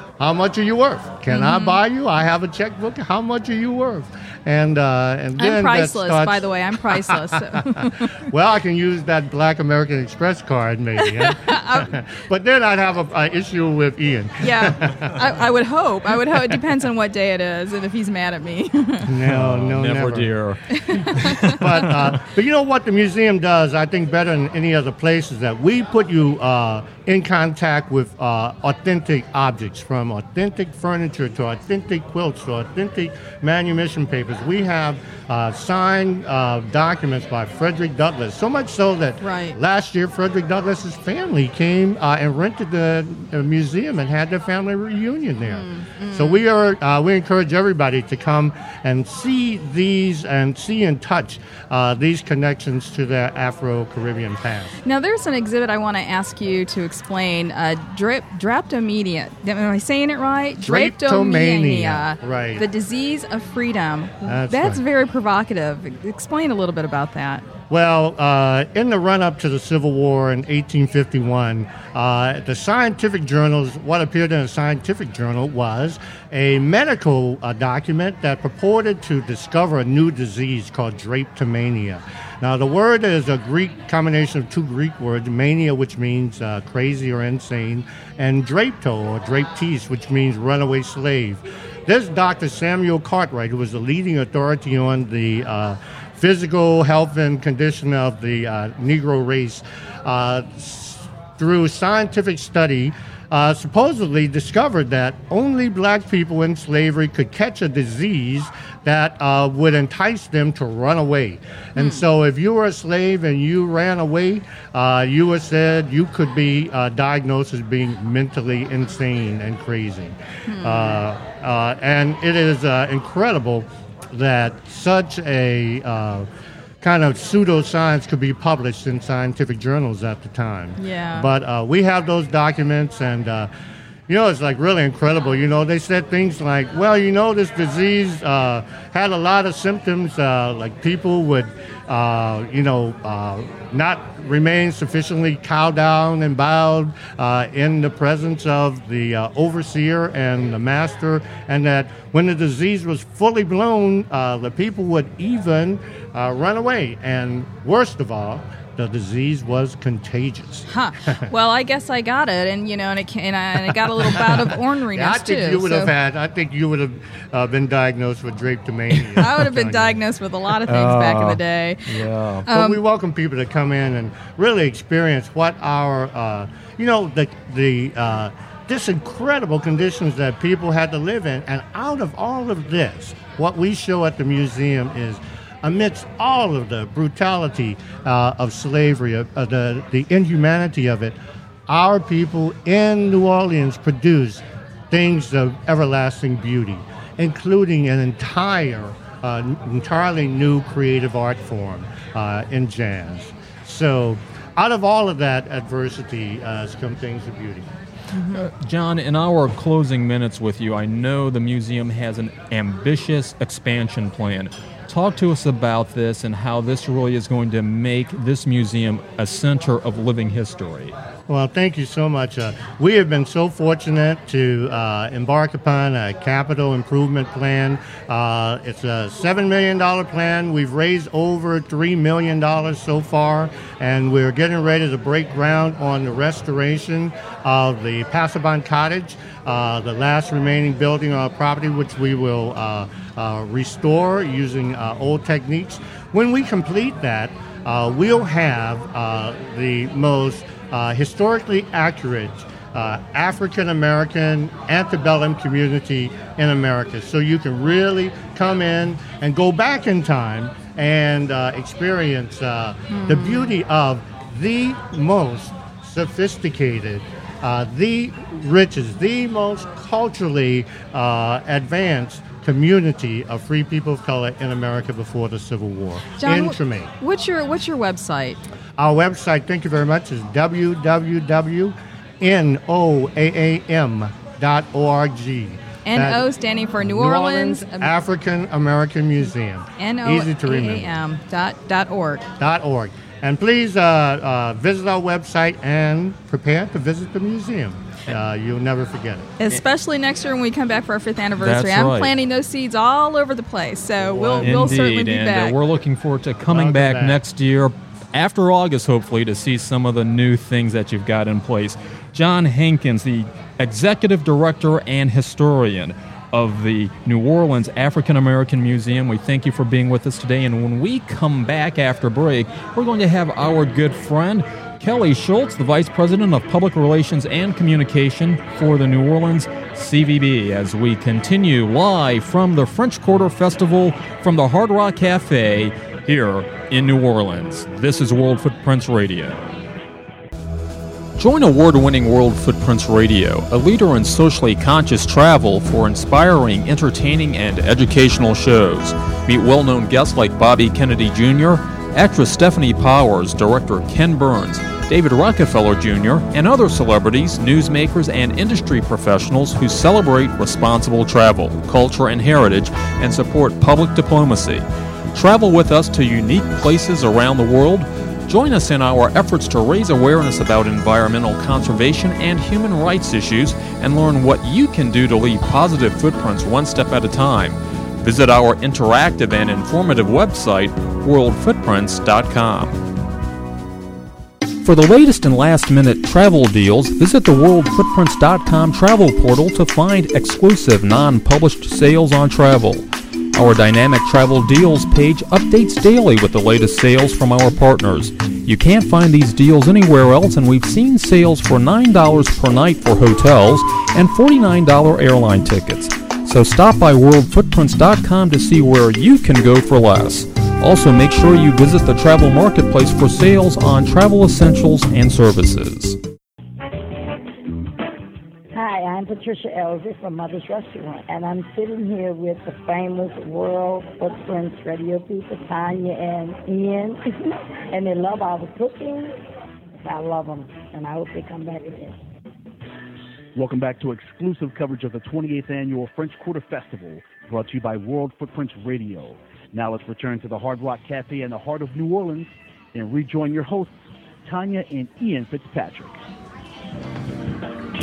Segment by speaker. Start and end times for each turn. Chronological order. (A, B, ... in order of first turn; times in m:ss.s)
0:00.2-0:15.2 A
0:01.3-0:01.8 B
0:05.4-0:08.1 B
0:11.0-0:11.9 B
0:14.4-0:19.1 B
0:19.0-0:20.3 A
0:19.2-0:20.6 C
0:20.7-0:21.6 B
0:21.1-0:22.2 C
0:21.5-0:54.7 A
0:39.2-0:39.6 B
0:45.4-0:46.4 B
0:54.8-1:07.4 B
1:00.6-1:02.6 A
1:04.2-1:04.8 A
1:07.7-2:06.3 A
1:51.8-1:52.0 B
2:00.5-2:01.0 B
2:06.8-2:13.5 A
2:10.8-2:11.3 B
2:14.1-2:41.2 A
2:40.7-2:45.9 B
2:44.0-2:49.9 A
2:49.2-2:52.8 B
2:50.7-2:52.4 C
2:52.5-3:11.2 A
3:11.7-3:27.6 A
3:28.3-3:40.9 C
3:41.3-4:36.9 A
4:22.9-4:23.6 B
4:36.2-4:38.4 B
4:38.8-4:46.2 A
4:45.8-4:47.9 B
4:46.8-4:50.9 A
4:49.8-4:52.2 B
4:52.4-4:59.3 A
4:59.4-5:05.6 B
5:01.4-5:02.1 C
5:04.1-5:39.5 C
5:04.3-5:04.6 A
5:06.5-5:07.2 A
5:41.2-6:22.8 C
6:24.6-6:32.8 C
6:33.3-6:56.0 C
6:58.5-7:07.1 D
7:07.7-7:09.1 D
7:09.8-7:12.0 D
7:13.3-7:23.7 E
7:24.2-7:25.9 E